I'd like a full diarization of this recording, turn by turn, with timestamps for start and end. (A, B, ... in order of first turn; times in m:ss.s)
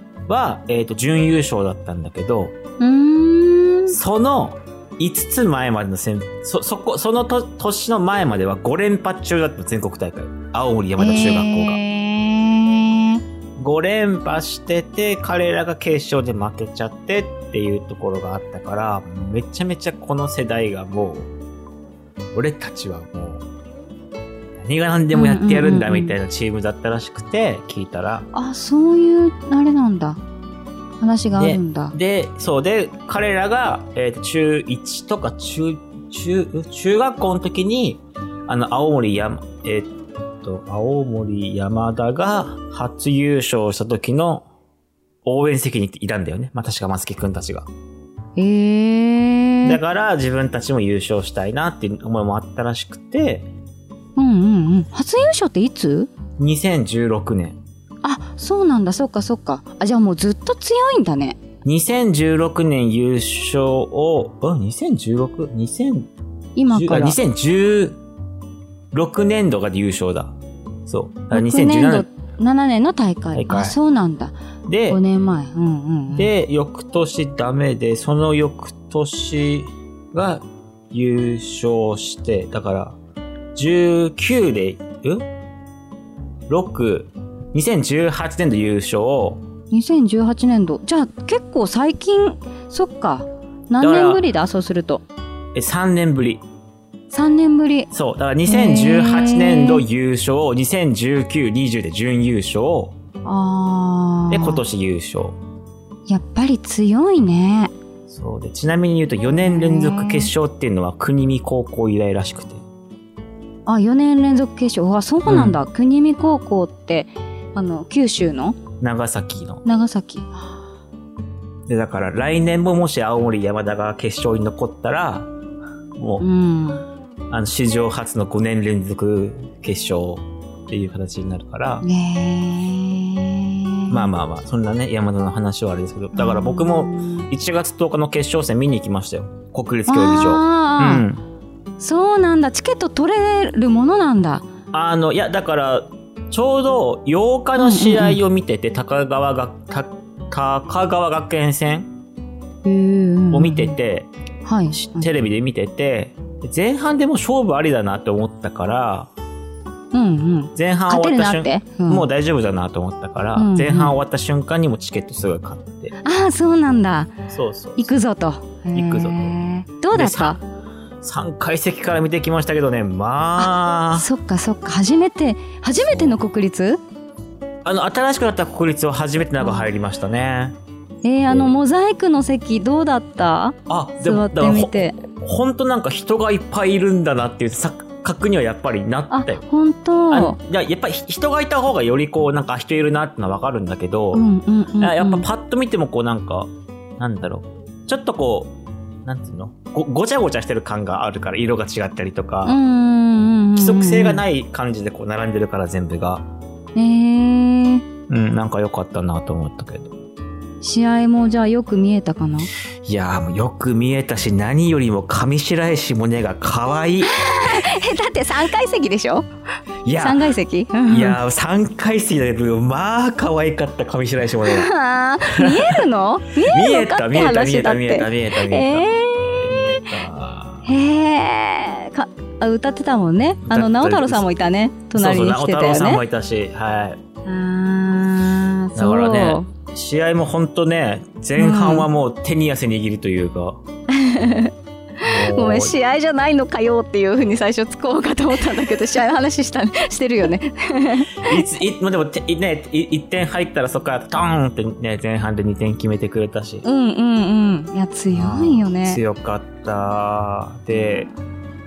0:00.3-0:02.6 A
0:02.8-0:04.0 B
0:03.9-0:11.8 A
0:11.0-0:13.2 B
0:13.6-0:21.3 A
0:22.3-0:23.4 A
0:24.6-0:28.3 A
0:25.1-0:26.1 B
0:28.3-0:30.2 B
0:31.0-0:32.0 B
0:31.3-0:44.4 A
0:45.2-0:47.7 A
0:48.4-0:49.8 B
0:49.6-0:53.5 A
0:54.2-0:56.1 B
0:56.4-0:57.6 A
0:58.0-1:01.4 B
1:01.6-1:06.1 A
1:06.6-1:07.2 B
1:06.7-1:08.0 A
1:08.9-1:10.3 A
1:10.9-1:12.1 A
1:11.3-1:14.3 B
1:13.3-1:13.8 A
1:14.7-1:15.0 A
1:14.9-1:16.3 B
1:16.1-1:23.0 A
1:23.5-1:25.3 A
1:26.5-1:29.4 A
1:29.7-1:35.0 B
1:33.8-1:34.2 A
1:35.5-1:36.4 A
1:37.1-1:37.9 B
1:37.9-1:43.0 A
1:38.4-1:39.8 B
1:43.2-1:44.6 B
1:44.3-1:45.4 A
1:46.1-1:47.7 B
1:48.1-1:52.6 A
1:49.4-1:50.3 B
1:53.6-1:58.6 B
1:55.2-1:55.6 A
1:58.8-1:59.6 A
1:59.6-2:00.3 B
2:01.7-2:05.3 A
2:06.0-2:06.2 A
2:06.2-2:06.8 B
2:07.3-2:11.8 A
2:11.8-2:14.0 B
2:13.9-2:21.2 A
2:16.1-2:17.3 B
2:19.9-2:21.0 B
2:21.8-2:24.5 B
2:24.7-2:31.9 A
2:27.6-2:28.2 B
2:32.6-2:33.7 B
2:33.3-2:34.1 A
2:34.4-2:35.1 B
2:34.7-2:39.1 A
2:39.9-2:42.0 B
2:40.5-2:45.9 A
2:43.4-2:44.0 B
2:46.0-2:47.1 B
2:47.3-2:48.0 A
2:47.8-2:50.4 B
2:48.7-2:49.4 A
2:49.9-2:50.4 A
2:51.0-2:54.1 A
2:53.4-2:56.8 B
2:55.8-2:56.2 A
2:57.6-3:00.6 A
3:01.0-3:05.0 B
3:03.7-3:09.4 A
3:09.1-3:10.4 B
3:10.1-3:14.2 A
3:14.1-3:15.2 B
3:14.8-3:22.6 A
3:22.4-3:24.2 B
3:23.6-3:26.2 A
3:26.7-3:27.8 B
3:28.1-3:29.9 A
3:30.6-3:32.5 B
3:32.8-3:37.7 A
3:37.0-3:39.3 B
3:39.8-3:40.3 A
3:40.0-3:41.2 B
3:40.9-3:44.7 A
3:44.4-3:49.9 B
3:45.3-3:45.8 A
3:46.4-3:50.7 A
3:50.6-3:56.0 B
3:53.4-3:54.3 A
3:54.9-3:57.0 A
3:57.2-3:59.5 B
3:58.8-4:03.6 A
4:01.4-4:01.9 B
4:03.9-4:11.4 B
4:05.0-4:05.7 A
4:11.2-4:16.6 A
4:16.6-4:19.0 B
4:18.1-4:21.1 A
4:20.7-4:21.1 B